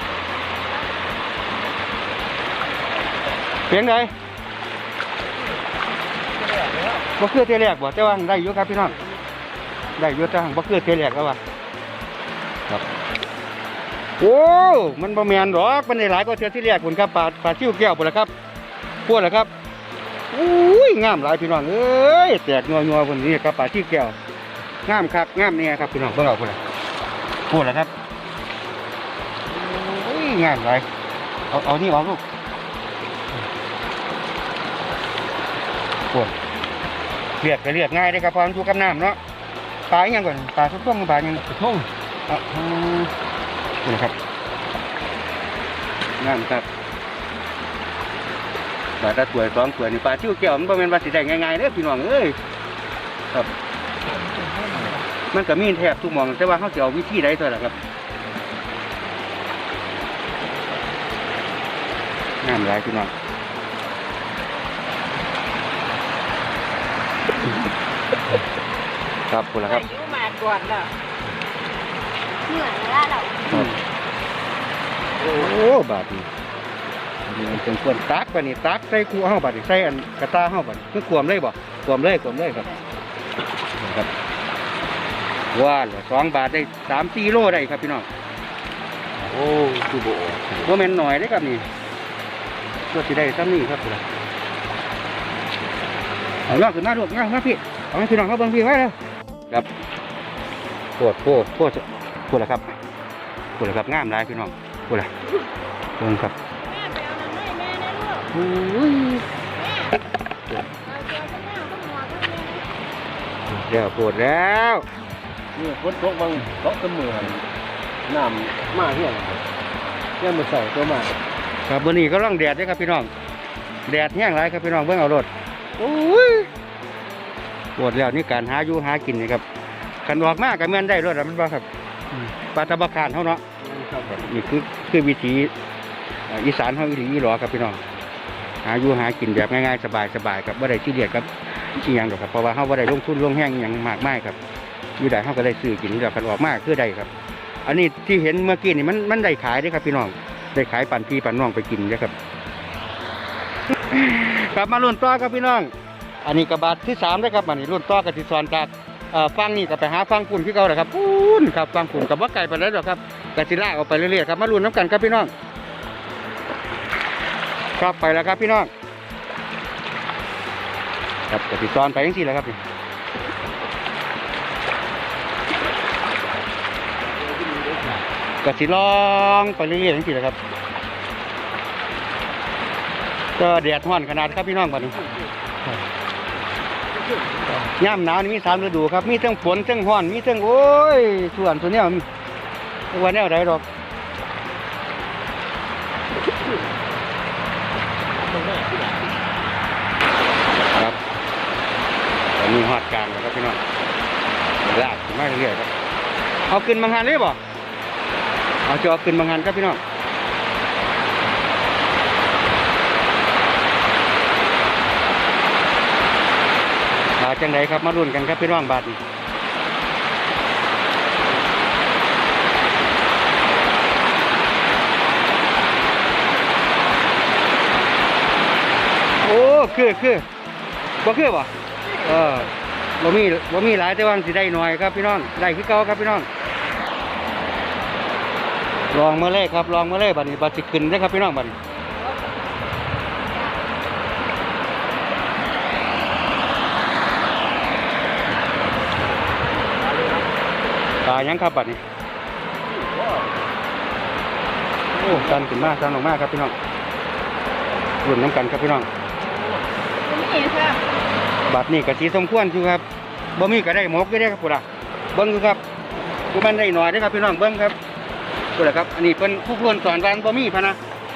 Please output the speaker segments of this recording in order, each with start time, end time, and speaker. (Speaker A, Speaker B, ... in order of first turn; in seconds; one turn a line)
Speaker A: 3.7-4.1
Speaker A: 7.2-8.9
Speaker A: 10.0-11.4
Speaker A: 14.2-18.3
Speaker A: 19.1-19.5
Speaker A: 20.3-24.1
Speaker A: 24.8-26.6
Speaker A: 27.5-27.9
Speaker A: 29.5-30.9
Speaker A: 31.5-32.2
Speaker A: 37.4-39.2
Speaker A: 39.9-41.5
Speaker A: 42.3-43.1
Speaker A: 43.8-44.1
Speaker A: 46.2-46.6
Speaker A: 49.0-52.4
Speaker A: 55.3-57.8
Speaker A: 62.4-63.1
Speaker A: 69.3-69.9
Speaker B: 69.7-70.9
Speaker B: 72.5-73.7
Speaker A: 73.5-73.8
Speaker A: 75.2-76.3
Speaker A: 77.3-82.8
Speaker A: 83.8-84.1
Speaker A: 85.5-88.0
Speaker C: 89.2-90.6
Speaker A: 90.6-91.7
Speaker A: 92.9-94.0
Speaker A: 96.5-98.9
Speaker A: 101.0-102.8
Speaker A: 103.6-105.1
Speaker A: 106.0-106.3
Speaker B: 106.7-108.2
Speaker A: 108.3-109.2
Speaker B: 110.8-112.7
Speaker A: 113.5-114.8
Speaker C: 115.5-117.4
Speaker C: 118.1-119.4
Speaker C: 120.2-121.2
Speaker A: 121.7-123.1
Speaker A: 123.8-126.5
Speaker A: 127.8-129.4
Speaker A: 130.0-133.4
Speaker C: 133.7-134.1
Speaker A: 134.1-135.5
Speaker A: 136.3-137.8
Speaker A: 138.6-144.4
Speaker A: 145.0-147.1
Speaker A: 147.6-152.1
Speaker A: 153.9-155.7
Speaker A: 156.2-165.3
Speaker A: 167.8-168.7
Speaker A: 171.3-172.6
Speaker C: 177.4-178.0
Speaker A: 178.4-180.3
Speaker A: 183.4-185.0
Speaker A: 187.6-192.1
Speaker A: 192.9-193.6
Speaker A: 200.7-201.0
Speaker A: 202.4-203.6
Speaker A: 204.6-205.7
Speaker A: 206.5-207.4
Speaker A: 208.6-209.8
Speaker A: 217.2-219.0
Speaker A: 229.2-230.2
Speaker A: 231.0-236.3
Speaker A: 238.9-241.5
Speaker C: 249.8-250.2
Speaker A: 251.0-251.8
Speaker C: 252.8-253.2
Speaker A: 254.9-256.5
Speaker A: 258.0-258.9
Speaker B: 260.0-260.8
Speaker A: 261.4-262.8
Speaker A: 263.4-265.6
Speaker A: 266.3-267.8
Speaker A: 268.5-270.8